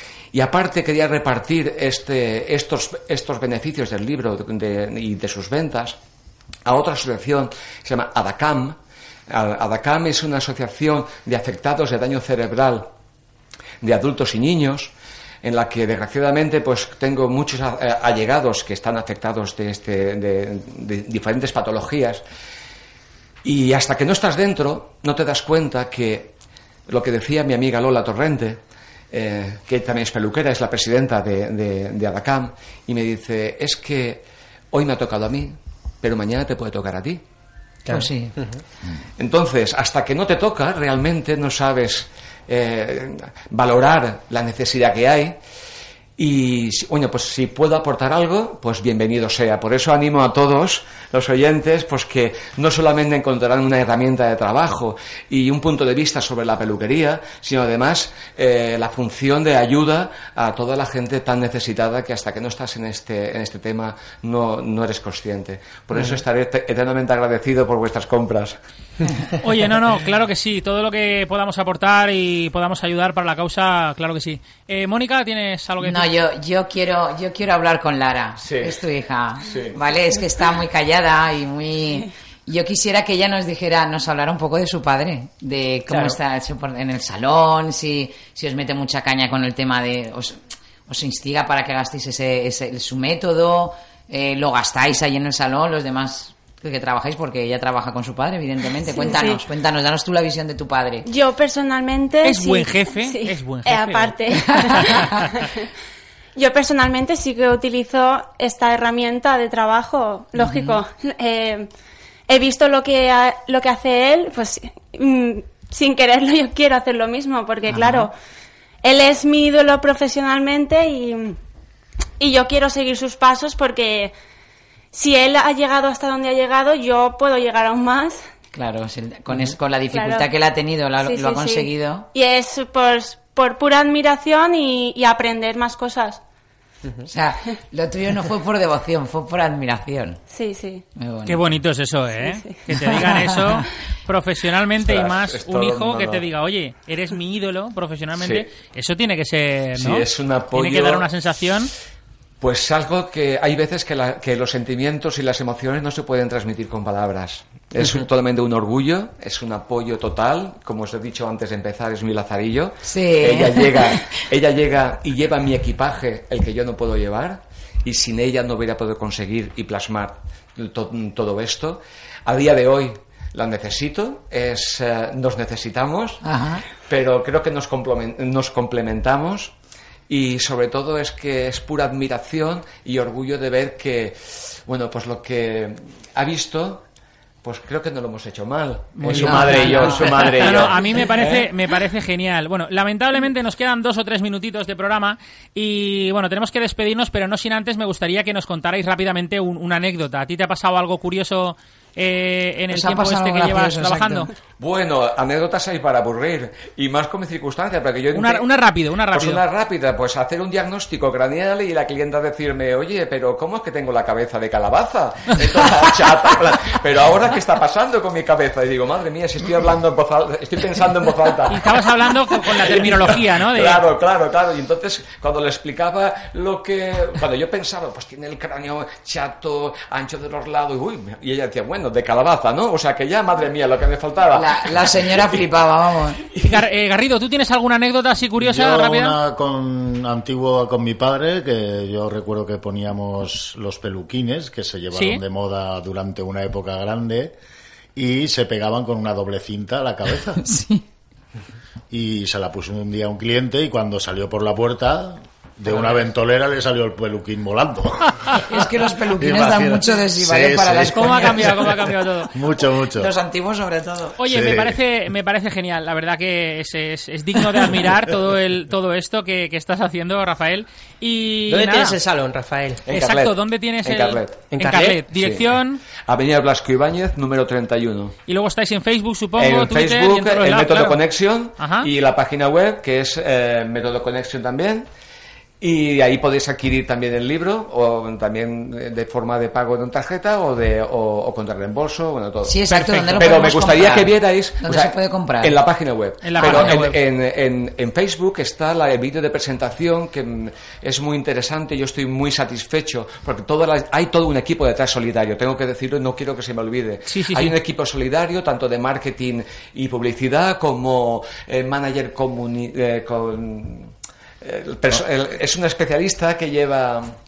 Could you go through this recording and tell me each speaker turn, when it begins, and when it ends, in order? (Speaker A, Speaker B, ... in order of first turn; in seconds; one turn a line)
Speaker A: 0.3-6.0
Speaker A: 6.6-8.8
Speaker A: 9.3-12.9
Speaker A: 13.8-14.9
Speaker A: 15.4-22.2
Speaker A: 23.4-26.3
Speaker A: 26.9-28.6
Speaker A: 29.1-37.2
Speaker B: 37.9-38.6
Speaker C: 37.9-38.3
Speaker A: 39.2-45.4
Speaker A: 46.2-68.6
Speaker B: 66.0-66.2
Speaker D: 69.4-76.1
Speaker C: 75.8-90.4
Speaker A: 78.4-78.8
Speaker A: 79.5-79.8
Speaker B: 85.9-86.2
Speaker C: 90.9-101.0
Speaker E: 98.8-99.4
Speaker E: 101.0-105.5
Speaker D: 102.2-104.2
Speaker E: 106.3-111.7
Speaker C: 110.4-110.8
Speaker E: 112.3-118.1
Speaker C: 117.7-118.1
Speaker E: 118.8-121.4
Speaker E: 122.2-124.1
Speaker E: 124.9-128.2
Speaker C: 128.5-132.1
Speaker E: 129.9-130.3
Speaker E: 131.0-136.2
Speaker C: 137.1-140.2
Speaker E: 140.3-140.8
Speaker C: 141.0-141.4
Speaker D: 141.2-151.7
Speaker E: 142.3-142.6
Speaker A: 144.8-146.2
Speaker A: 148.2-148.5
Speaker A: 149.8-151.1
Speaker A: 152.4-176.2
Speaker C: 162.8-164.1
Speaker C: 176.2-176.6
Speaker A: 176.8-179.5
Speaker A: 180.1-186.8
Speaker A: 187.4-191.5
Speaker D: 188.9-204.3
Speaker C: 189.1-190.7
Speaker C: 202.7-204.3
Speaker A: 204.6-208.4
Speaker D: 208.1-209.4
Speaker A: 209.1-221.7
Speaker D: 221.5-223.8
Speaker A: 222.4-235.4
Speaker C: 234.3-236.2
Speaker A: 236.2-236.6
Speaker D: 236.4-239.2
Speaker F: 238.4-247.3
Speaker D: 244.9-245.2
Speaker F: 247.9-250.5
Speaker C: 250.4-250.8
Speaker F: 251.9-258.3
Speaker C: 258.3-261.6
Speaker F: 259.1-261.8
Speaker D: 260.9-262.3
Speaker F: 262.3-263.1
Speaker C: 262.9-264.1
Speaker D: 264.2-271.9
Speaker F: 264.3-264.8
Speaker B: 271.5-272.8
Speaker D: 272.9-275.8
Speaker A: 272.9-274.4
Speaker B: 274.5-275.1
Speaker A: 275.1-275.4
Speaker A: 276.1-278.1
Speaker D: 278.3-281.0
Speaker A: 279.4-284.9
Speaker D: 281.6-281.9
Speaker A: 285.6-317.1
Speaker C: 292.4-295.6
Speaker D: 292.7-293.4
Speaker D: 296.2-297.0
Speaker C: 296.4-296.8
Speaker D: 307.1-307.6